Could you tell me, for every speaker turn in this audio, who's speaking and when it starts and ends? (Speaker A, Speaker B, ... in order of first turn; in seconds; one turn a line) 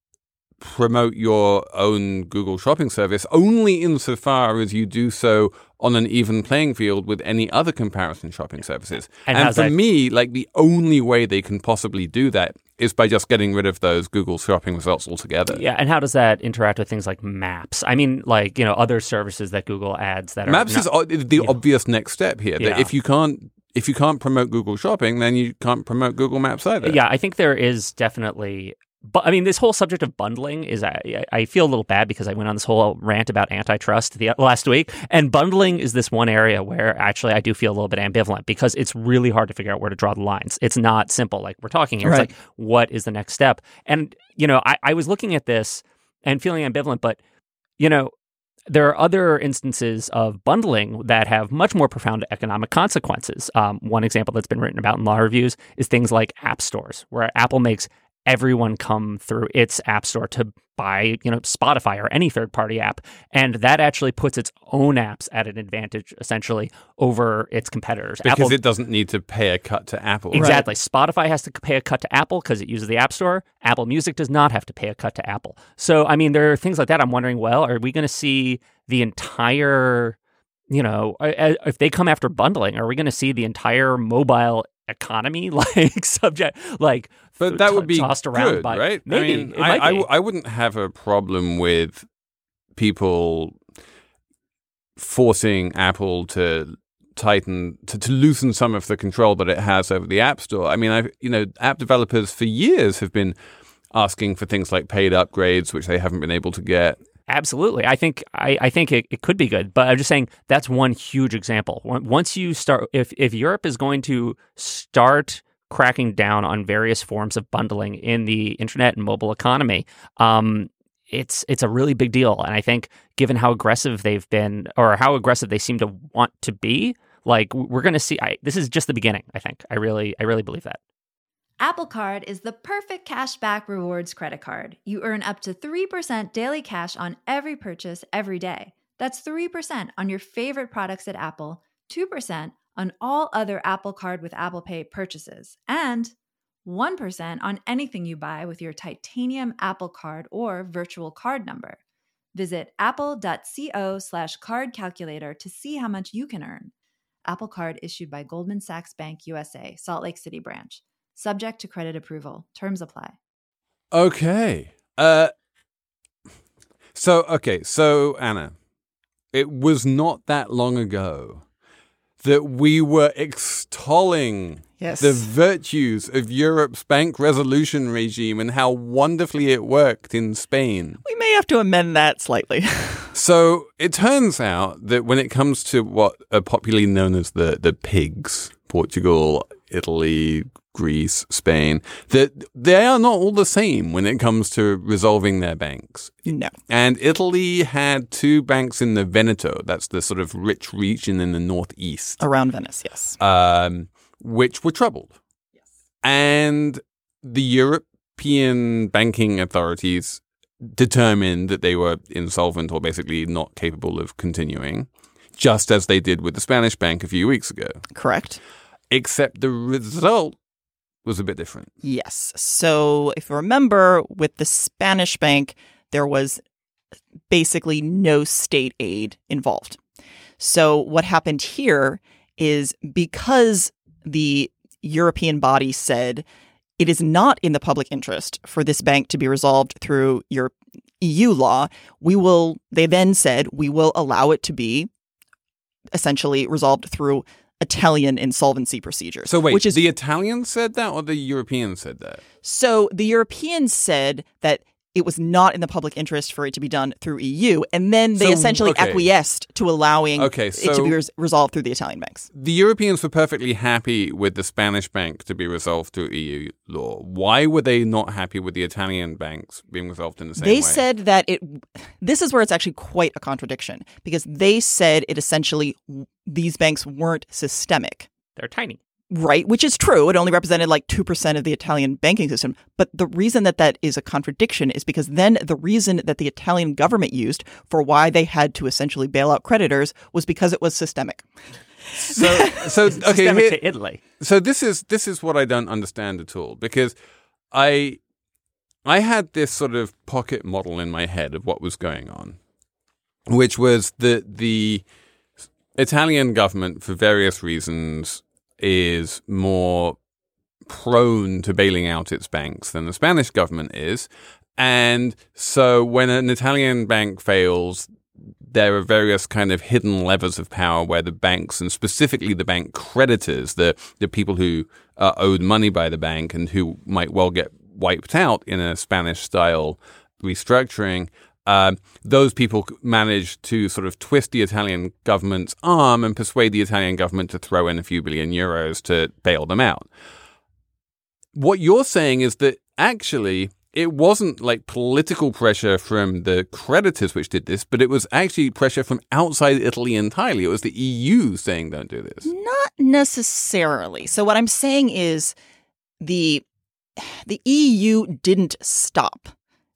Speaker A: 0.6-15.6
Speaker B: 9.2-9.7
Speaker B: 15.5-21.6
Speaker A: 20.4-27.0
Speaker B: 22.6-22.9
Speaker B: 26.8-47.2
Speaker C: 42.0-42.3
Speaker B: 47.8-48.1
Speaker B: 48.7-68.6
Speaker A: 68.2-70.5
Speaker B: 70.3-80.2
Speaker C: 70.3-70.6
Speaker B: 80.7-90.1
Speaker A: 87.4-92.0
Speaker A: 92.8-93.6
Speaker A: 95.0-103.3
Speaker A: 103.9-107.0
Speaker B: 107.3-130.8
Speaker D: 131.6-146.1
Speaker D: 146.6-151.8
Speaker D: 152.3-156.7
Speaker D: 157.2-163.2
Speaker A: 163.9-165.3
Speaker A: 166.9-168.5
Speaker A: 169.3-171.4
Speaker A: 172.2-181.0
Speaker C: 174.8-175.3
Speaker C: 181.0-183.1
Speaker A: 183.1-202.2
Speaker C: 196.3-196.5
Speaker C: 202.2-203.2
Speaker A: 203.2-205.1
Speaker A: 206.0-217.8
Speaker C: 217.9-218.4
Speaker A: 218.9-220.4
Speaker A: 221.0-221.7
Speaker C: 221.8-226.4
Speaker C: 227.3-229.8
Speaker C: 230.4-236.2
Speaker C: 236.8-244.9
Speaker C: 245.9-249.8
Speaker A: 249.3-252.2
Speaker C: 252.4-262.3
Speaker A: 258.2-259.1
Speaker A: 260.2-261.0
Speaker A: 262.3-270.8
Speaker C: 270.4-278.1
Speaker B: 278.4-278.8
Speaker C: 279.1-291.3
Speaker A: 292.0-293.6
Speaker C: 292.1-292.5
Speaker B: 292.9-294.0
Speaker A: 294.2-296.9
Speaker A: 297.5-298.0
Speaker A: 298.8-302.4
Speaker A: 303.3-304.8
Speaker A: 305.7-310.0
Speaker A: 310.6-317.9
Speaker A: 318.4-339.9
Speaker A: 341.3-352.3
Speaker C: 352.2-355.3
Speaker C: 356.0-356.4
Speaker C: 357.0-359.3